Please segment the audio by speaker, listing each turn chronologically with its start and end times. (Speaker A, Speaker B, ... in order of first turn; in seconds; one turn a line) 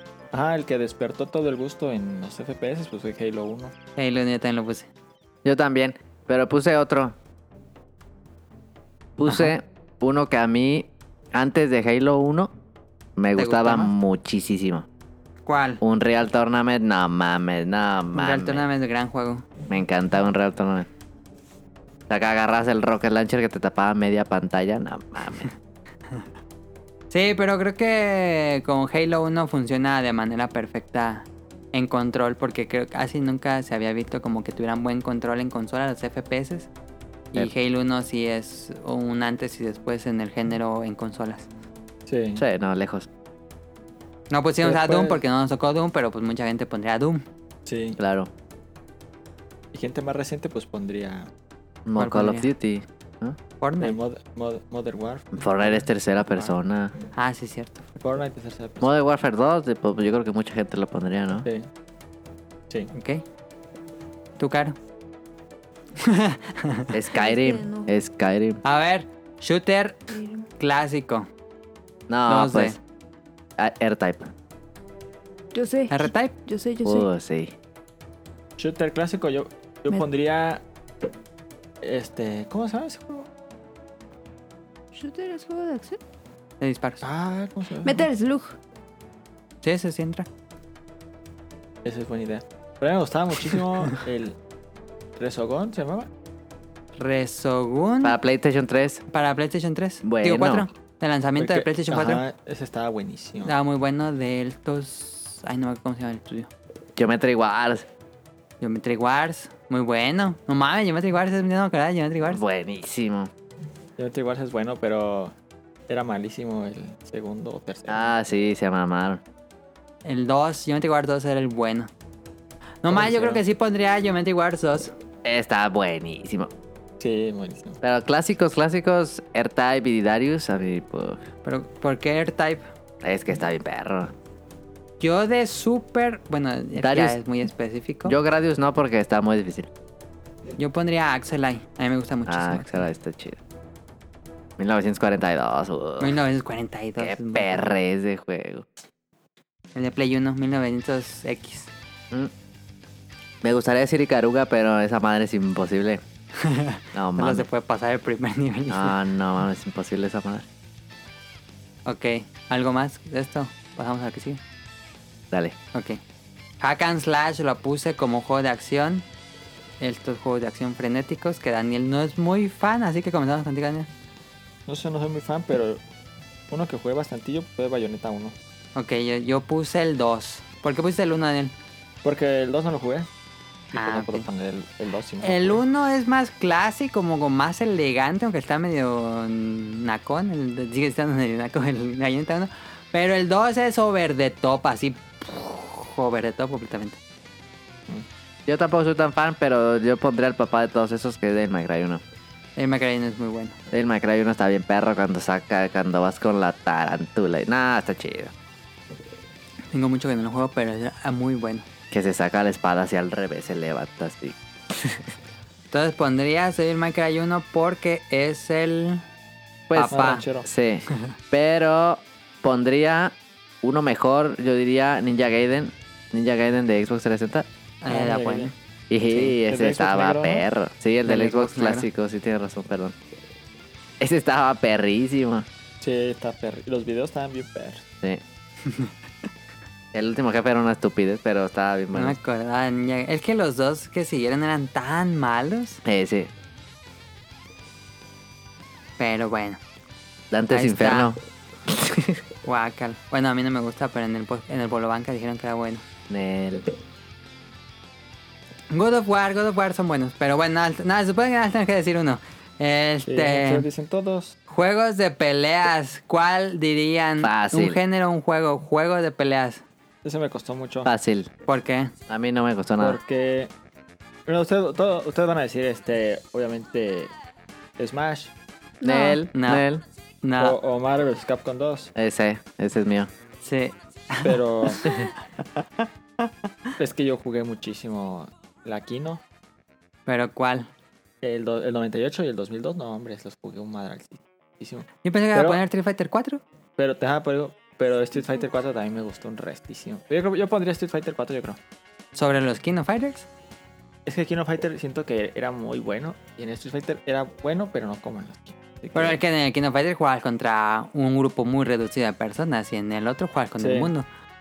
Speaker A: 0.3-3.7
Speaker B: 4.0-4.9
Speaker C: 5.4-7.2
Speaker C: 9.2-12.5
Speaker B: 9.3-9.5
Speaker C: 13.2-14.9
Speaker B: 13.3-13.9
Speaker B: 15.4-15.8
Speaker C: 15.8-18.7
Speaker B: 18.1-19.5
Speaker C: 19.7-20.9
Speaker C: 22.1-25.5
Speaker B: 27.1-36.7
Speaker B: 37.3-41.5
Speaker A: 42.1-42.4
Speaker C: 42.4-43.1
Speaker B: 44.3-47.2
Speaker A: 44.6-45.2
Speaker A: 47.6-48.0
Speaker C: 48.0-48.3
Speaker A: 49.7-51.3
Speaker C: 51.9-53.4
Speaker B: 52.0-52.5
Speaker B: 53.6-54.0
Speaker A: 53.8-56.5
Speaker C: 55.3-56.9
Speaker B: 57.1-58.0
Speaker A: 58.0-58.9
Speaker C: 58.8-61.5
Speaker B: 62.9-63.2
Speaker B: 64.4-64.8
Speaker B: 66.0-66.9
Speaker C: 66.9-68.6
Speaker D: 67.1-67.9
Speaker B: 68.6-70.0
Speaker D: 70.1-70.4
Speaker B: 70.6-71.3
Speaker C: 72.1-72.8
Speaker B: 72.3-72.8
Speaker C: 73.6-74.3
Speaker D: 75.5-77.1
Speaker B: 75.9-76.3
Speaker C: 76.8-77.5
Speaker A: 78.6-80.6
Speaker A: 81.8-83.3
Speaker D: 84.9-86.0
Speaker B: 86.6-87.0
Speaker A: 87.0-88.1
Speaker D: 87.8-88.5
Speaker B: 89.6-90.3
Speaker A: 91.8-94.4
Speaker A: 95.2-96.1
Speaker B: 97.0-98.2
Speaker C: 98.0-99.0
Speaker B: 99.1-102.2
Speaker C: 100.0-100.7
Speaker A: 101.4-103.5
Speaker B: 103.4-106.5
Speaker C: 107.0-107.9
Speaker B: 108.6-112.4
Speaker C: 112.2-113.3
Speaker A: 114.0-115.3
Speaker A: 115.9-118.1
Speaker C: 117.9-119.2
Speaker B: 120.0-121.9
Speaker B: 122.8-124.9
Speaker A: 122.9-123.4
Speaker C: 125.2-126.5
Speaker A: 127.0-127.8
Speaker C: 127.8-131.2
Speaker B: 131.4-132.6
Speaker C: 133.0-134.1
Speaker B: 135.0-138.2
Speaker C: 136.8-137.2
Speaker C: 138.0-139.7
Speaker B: 140.6-142.9
Speaker C: 142.3-143.4
Speaker C: 144.6-146.2
Speaker B: 146.0-147.7
Speaker C: 147.0-148.7
Speaker B: 149.7-151.7
Speaker C: 153.4-156.0
Speaker B: 156.4-159.0
Speaker C: 156.9-157.5
Speaker C: 158.7-160.5
Speaker B: 161.8-164.4
Speaker C: 165.3-165.6
Speaker B: 165.7-166.0
Speaker B: 166.6-169.0
Speaker B: 169.8-173.9
Speaker A: 174.7-175.8
Speaker A: 176.5-178.3
Speaker B: 178.7-181.5
Speaker A: 182.0-183.1
Speaker A: 183.7-185.6
Speaker B: 183.7-184.3
Speaker B: 185.2-197.0
Speaker C: 198.4-202.0
Speaker B: 202.6-203.6
Speaker C: 203.7-208.3
Speaker B: 209.7-211.6
Speaker C: 211.9-215.1
Speaker B: 215.7-219.0
Speaker C: 219.7-227.5
Speaker B: 219.7-220.2
Speaker A: 219.9-220.4
Speaker B: 227.8-228.5
Speaker A: 227.8-228.5
Speaker C: 228.9-232.9
Speaker A: 229.5-230.4
Speaker B: 231.0-231.9
Speaker C: 234.0-235.5
Speaker A: 235.8-237.8
Speaker C: 239.9-242.2
Speaker B: 241.9-245.8
Speaker C: 245.8-246.3
Speaker B: 249.0-249.6
Speaker C: 250.3-252.2
Speaker B: 250.5-251.1
Speaker B: 252.4-255.8
Speaker C: 256.1-256.7
Speaker B: 258.7-263.7
Speaker A: 263.1-264.4
Speaker B: 264.5-269.6
Speaker C: 267.2-267.8
Speaker A: 270.0-270.9
Speaker C: 270.8-271.3
Speaker B: 271.5-271.9
Speaker C: 272.1-273.0
Speaker A: 272.8-273.5
Speaker A: 274.2-277.1
Speaker A: 277.8-278.3
Speaker D: 278.8-279.2
Speaker C: 278.8-279.8
Speaker B: 279.3-279.6
Speaker B: 280.2-280.6
Speaker A: 280.4-281.9
Speaker C: 281.9-283.1
Speaker B: 283.4-285.0
Speaker A: 284.2-284.8
Speaker A: 286.8-289.2
Speaker B: 290.1-290.7
Speaker A: 291.2-295.6
Speaker B: 295.0-296.4
Speaker A: 296.8-301.6
Speaker B: 302.1-303.3
Speaker A: 304.1-309.2
Speaker B: 308.9-314.1
Speaker A: 313.6-313.9